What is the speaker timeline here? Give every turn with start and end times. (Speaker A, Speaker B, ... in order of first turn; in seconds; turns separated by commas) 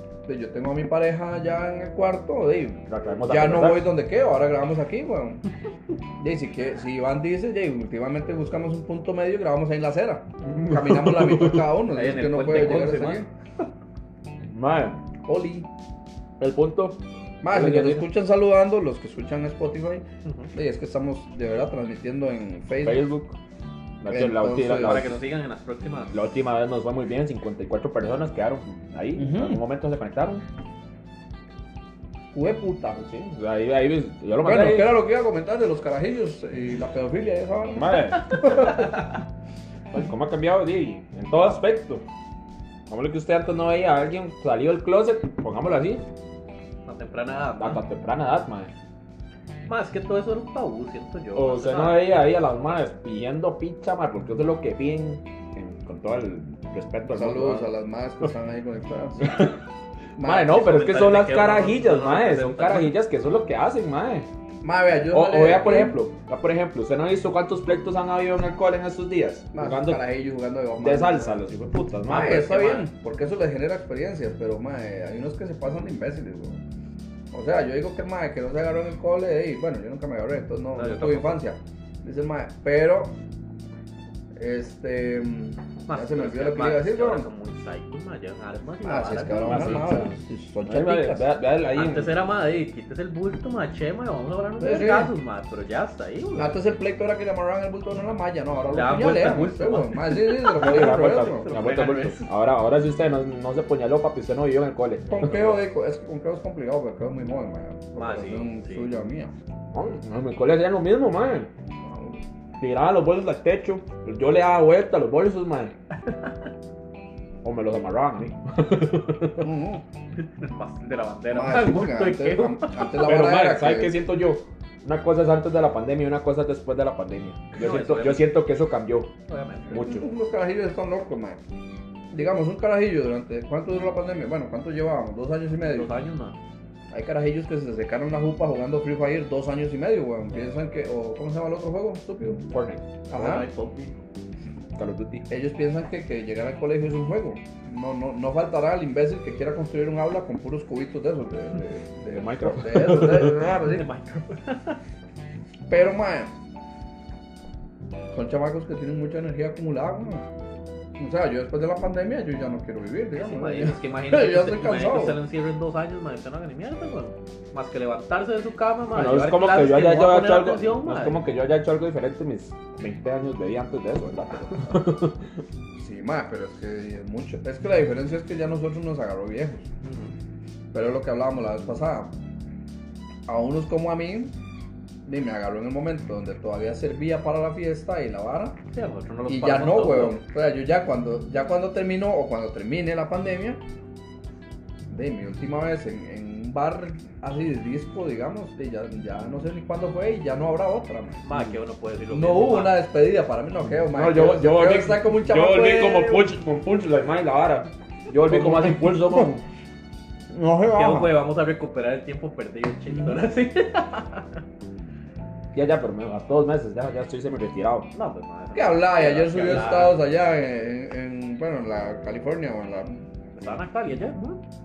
Speaker A: 0.2-5.4, Speaker B: 2.9-3.9, Speaker A: 6.2-13.3, Speaker B: 10.4-11.7, Speaker C: 11.9-13.2, Speaker B: 14.5-15.0, Speaker A: 15.2-15.7, Speaker B: 16.4-17.0, Speaker A: 17.4-23.0, Speaker B: 17.5-18.1, Speaker C: 20.2-20.5, Speaker B: 22.8-23.4, Speaker B: 24.0-25.2, Speaker A: 24.1-25.1, Speaker C: 24.8-26.2, Speaker B: 26.1-30.4, Speaker A: 29.1-29.6, Speaker A: 32.3-33.0, Speaker B: 33.0-35.0, Speaker A: 34.4-39.0, Speaker B: 37.7-38.8, Speaker B: 39.9-42.0, Speaker B: 42.9-46.0, Speaker C: 46.9-47.8, Speaker B: 47.6-48.7, Speaker C: 49.7-52.0, Speaker B: 51.4-57.7, Speaker A: 57.1-59.4, Speaker B: 59.2-59.6, Speaker A: 60.2-60.6, Speaker B: 60.2-64.3, Speaker C: 60.4-62.9, Speaker A: 64.6-66.0, Speaker B: 65.1-70.0, Speaker A: 69.5-71.4, Speaker B: 70.8-72.5, Speaker A: 72.0-76.6, Speaker C: 72.1-72.9, Speaker A: 77.3-83.1, Speaker C: 80.7-81.4, Speaker A: 84.3-87.3, Speaker C: 85.9-89.9, Speaker A: 88.8-91.2, Speaker B: 89.4-90.1, Speaker B: 90.6-92.1, Speaker C: 91.7-96.5, Speaker A: 94.6-95.1, Speaker A: 96.3-101.5, Speaker C: 98.7-102.3, Speaker B: 100.5-105.6, Speaker A: 105.1-109.3, Speaker C: 108.0-108.8, Speaker B: 109.7-111.5, Speaker A: 111.8-112.2, Speaker B: 112.6-115.7, Speaker B: 117.4-119.5, Speaker A: 119.4-119.8, Speaker C: 120.4-122.9, Speaker A: 121.3-124.0, Speaker B: 123.0-129.1, Speaker C: 127.5-128.2, Speaker C: 129.3-130.0, Speaker A: 129.7-131.4, Speaker B: 129.7-130.1, Speaker A: 132.1-135.9, Speaker C: 135.7-136.3, Speaker A: 136.9-142.4, Speaker B: 142.5-142.8, Speaker A: 143.1-143.4, Speaker C: 143.1-144.0, Speaker B: 144.8-145.2, Speaker A: 145.3-153.9, Speaker B: 152.1-153.5, Speaker C: 153.2-154.8, Speaker A: 155.7-156.3, Speaker A: 158.1-160.2, Speaker A: 161.0-165.2, Speaker C: 163.2-171.2, Speaker B: 168.9-175.3, Speaker A: 175.8-179.7, Speaker C: 179.8-180.1, Speaker A: 180.7-182.1, Speaker A: 183.3-184.3, Speaker A: 185.1-188.6, Speaker C: 188.7-190.2, Speaker A: 189.2-193.6, Speaker A: 194.9-201.2, Speaker C: 201.2-202.8, Speaker A: 202.1-206.3, Speaker B: 203.9-209.4, Speaker A: 208.2-209.3, Speaker A: 210.3-211.1, Speaker C: 210.7-214.2, Speaker B: 215.5-217.9, Speaker C: 217.9-220.0, Speaker A: 218.5-223.0, Speaker C: 223.3-224.4